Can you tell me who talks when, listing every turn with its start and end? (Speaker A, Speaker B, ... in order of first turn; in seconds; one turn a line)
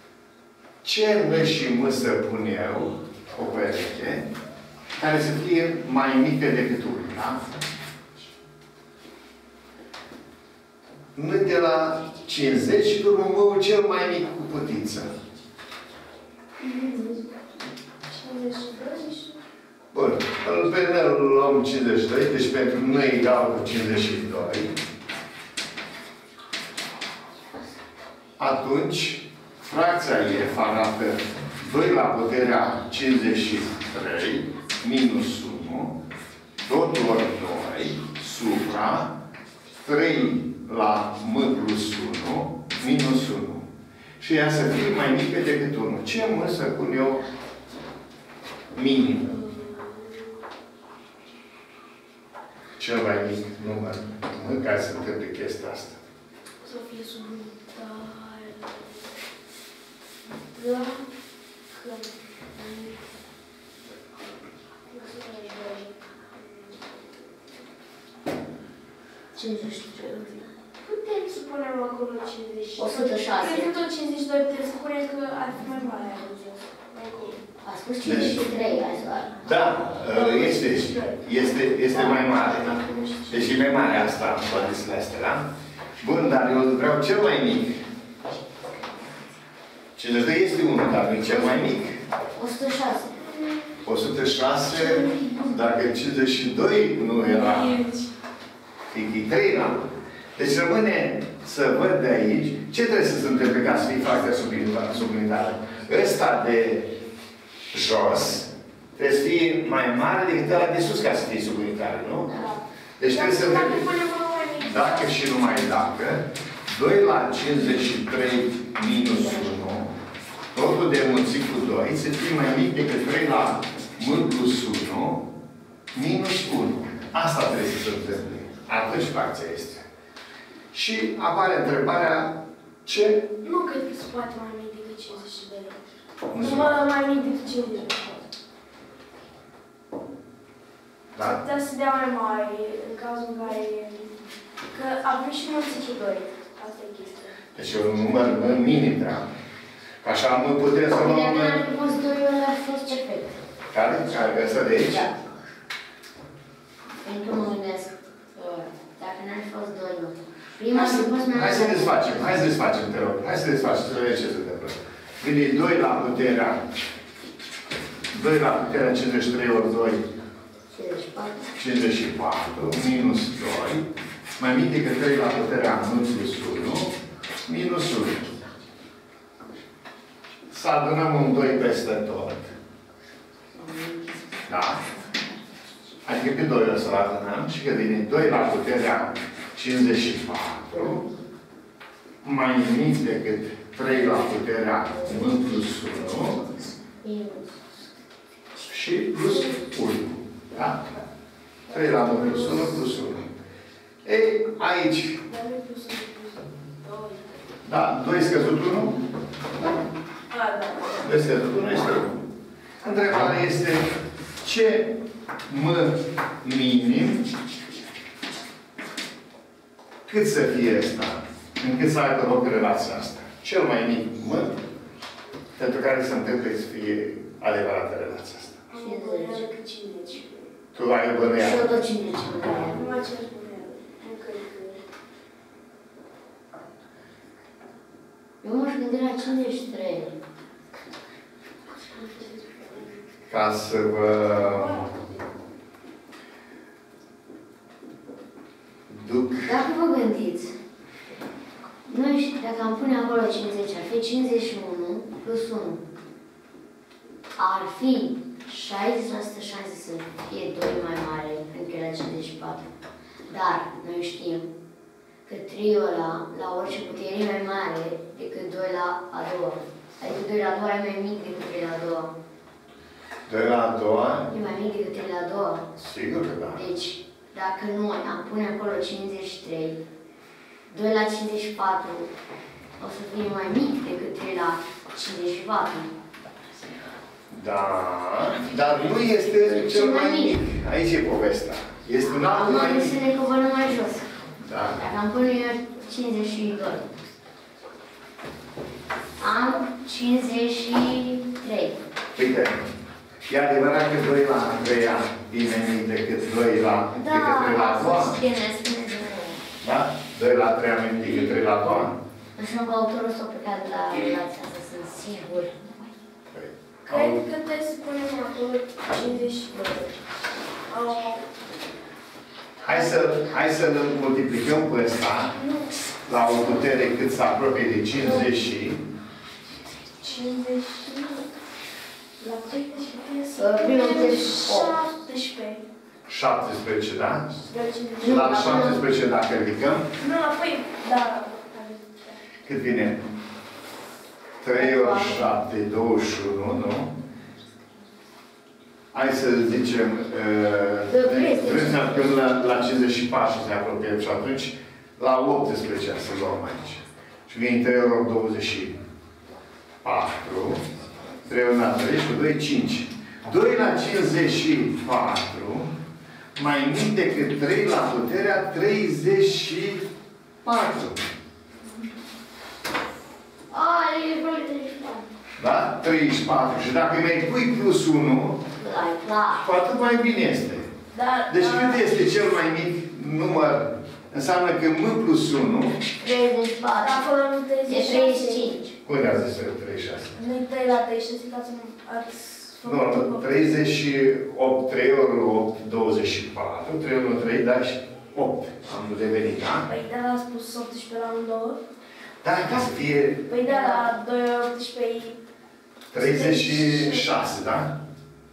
Speaker A: 0.8-4.2
Speaker A: 5.0-7.5
Speaker A: 11.1-15.2
Speaker B: 16.6-17.3
Speaker B: 18.0-19.4
Speaker A: 19.9-24.8
Speaker A: 28.4-36.0
Speaker A: 36.6-39.2
Speaker A: 39.8-47.2
Speaker A: 48.7-49.4
Speaker B: 49.3-50.3
Speaker A: 52.8-56.0
Speaker B: 56.6-59.0
Speaker B: 60.3-61.1
Speaker B: 61.7-63.0
Speaker B: 64.9-67.3
Speaker C: 69.3-70.4
Speaker B: 70.8-77.4
Speaker C: 72.8-73.8
Speaker C: 77.6-79.4
Speaker A: 78.0-78.5
Speaker A: 79.4-85.4
Speaker B: 80.1-83.8
Speaker A: 86.0-87.8
Speaker A: 90.0-92.0
Speaker C: 92.3-93.3
Speaker A: 93.8-97.8
Speaker B: 97.3-98.1
Speaker A: 98.9-107.0
Speaker A: 107.7-112.4
Speaker B: 112.3-115.1
Speaker A: 113.0-113.9
Speaker A: 114.6-119.9
Speaker A: 120.5-125.3
Speaker A: 125.9-129.9
Speaker A: 130.7-133.2
Speaker B: 133.4-135.8
Speaker A: 136.3-136.8
Speaker B: 136.3-138.2
Speaker A: 141.1-141.4
Speaker B: 141.2-144.1
Speaker B: 144.7-147.4
Speaker A: 147.5-149.3
Speaker A: 150.0-151.6
Speaker C: 150.9-153.4
Speaker A: 153.7-155.1
Speaker C: 154.9-155.1
Speaker C: 157.0-162.1
Speaker A: 160.7-166.8
Speaker A: 168.1-170.1
Speaker C: 170.7-171.5
Speaker A: 171.6-178.3
Speaker A: 180.5-182.5
Speaker C: 183.5-184.3
Speaker A: 184.5-184.8
Speaker A: 186.0-191.1
Speaker A: 192.2-196.4
Speaker C: 197.0-197.7
Speaker A: 198.7-200.8
Speaker B: 201.7-202.9
Speaker A: 201.7-203.3
Speaker A: 204.0-205.2
Speaker B: 205.2-207.5
Speaker A: 207.6-209.0
Speaker B: 210.3-211.1
Speaker A: 211.0-212.2
Speaker A: 212.8-213.8
Speaker A: 214.4-217.3
Speaker A: 220.1-224.6
Speaker A: 225.6-228.6
Speaker B: 228.7-230.5
Speaker C: 228.7-229.5
Speaker A: 230.7-231.7
Speaker C: 231.4-232.8
Speaker B: 232.6-234.8
Speaker C: 238.4-240.2
Speaker B: 241.8-243.0
Speaker A: 243.3-244.9
Speaker B: 244.4-245.2
Speaker A: 248.9-249.5
Speaker C: 249.4-250.6
Speaker C: 251.9-255.8
Speaker C: 257.4-262.7
Speaker C: 263.3-264.5
Speaker C: 265.2-272.1
Speaker A: 273.3-274.3
Speaker C: 274.3-275.7
Speaker A: 275.8-276.6
Speaker C: 276.5-279.8
Speaker C: 280.7-282.1
Speaker C: 282.8-285.9
Speaker A: 287.3-293.0
Speaker C: 289.4-290.4
Speaker C: 292.1-296.9
Speaker A: 294.4-294.8
Speaker C: 299.2-301.8
Speaker A: 302.1-302.7
Speaker A: 303.3-308.2
Speaker C: 306.9-309.4
Speaker A: 309.6-312.0
Speaker C: 312.4-315.6
Speaker A: 316.3-317.2
Speaker B: 316.8-320.0
Speaker B: 320.7-321.2
Speaker A: 322.6-325.4
Speaker A: 326.0-328.8
Speaker B: 328.0-328.3
Speaker B: 330.0-331.3
Speaker B: 332.2-335.6
Speaker C: 333.4-334.8
Speaker A: 336.1-337.4
Speaker B: 337.5-338.6
Speaker A: 338.0-339.9
Speaker C: 338.0-338.8
Speaker B: 340.0-342.2
Speaker A: 342.4-343.0
Speaker A: 344.4-346.9
Speaker C: 344.5-345.2
Speaker A: 348.9-358.8
Speaker C: 350.9-352.1
Speaker A: 359.8-360.6
Speaker A: 361.2-365.7
Speaker A: 366.3-369.9
Speaker A: 370.4-371.1
Speaker C: 373.5-375.1
Speaker A: 375.4-378.4
Speaker C: 378.6-379.4
Speaker A: 379.4-380.7
Speaker B: 380.9-381.9
Speaker A: 381.3-385.8
Speaker C: 386.0-387.1
Speaker B: 386.8-388.5
Speaker C: 387.6-388.7
Speaker A: 388.8-390.2
Speaker B: 390.1-393.5
Speaker A: 392.6-399.7
Speaker B: 399.7-401.6
Speaker A: 402.2-403.3
Speaker B: 403.3-405.2
Speaker C: 403.4-403.9
Speaker A: 405.9-407.8
Speaker B: 405.9-407.1